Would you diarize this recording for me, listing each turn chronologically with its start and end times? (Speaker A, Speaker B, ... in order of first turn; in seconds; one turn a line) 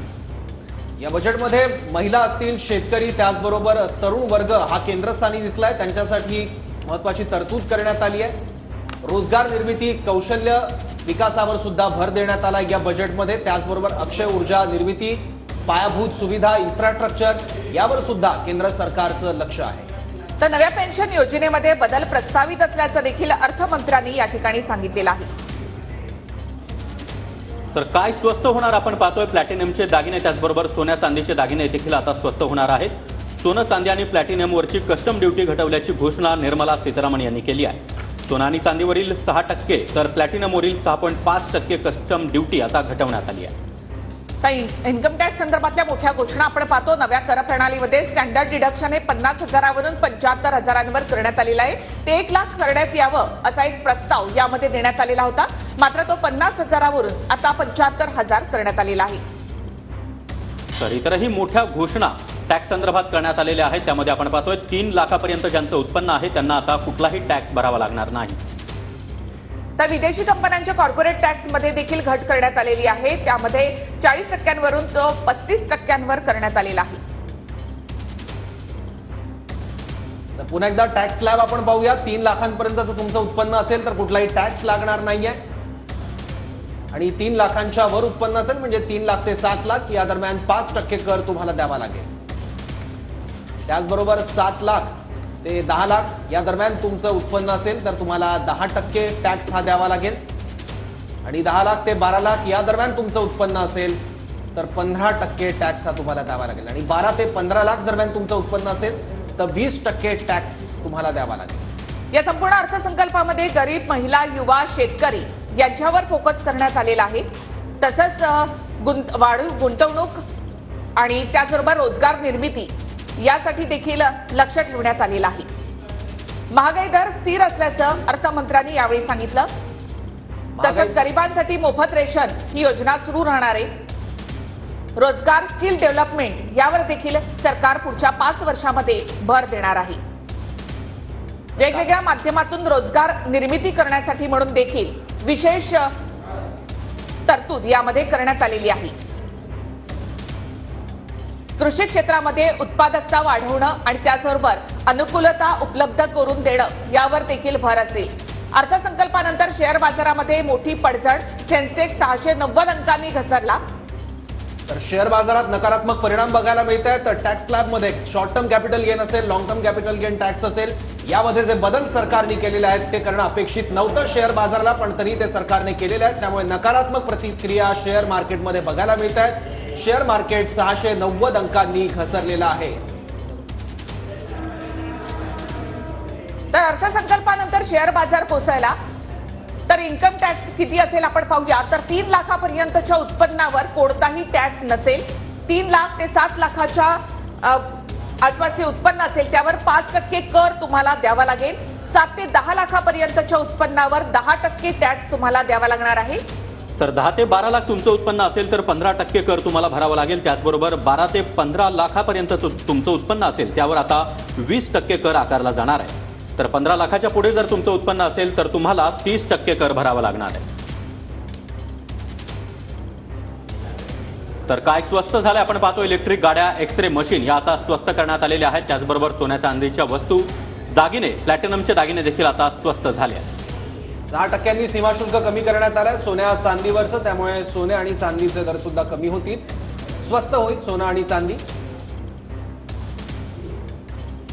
Speaker A: 1.0-8.4
Speaker A: 9.0-19.9
Speaker B: 20.4-25.3
Speaker C: 27.7-43.5
Speaker B: 44.4-59.2
Speaker C: 60.8-68.4
Speaker B: 69.8-77.0
Speaker A: 80.4-85.4
Speaker A: 86.9-92.1
Speaker A: 93.7-100.2
Speaker A: 101.2-104.0
Speaker A: 104.5-111.6
Speaker B: 112.1-117.3
Speaker B: 117.8-120.2
Speaker B: 121.0-125.5
Speaker B: 126.5-129.5
Speaker A: 130.6-131.0
Speaker B: 130.6-133.7
Speaker B: 135.0-140.0
Speaker B: 141.6-145.9
Speaker B: 147.3-148.9
Speaker B: 151.6-163.6
Speaker A: 164.7-182.8
Speaker B: 186.5-188.8
Speaker B: 189.7-197.7
Speaker B: 198.2-206.2
Speaker C: 206.8-220.4
Speaker C: 224.5-233.2
Speaker A: 234.1-239.4
Speaker A: 240.0-241.4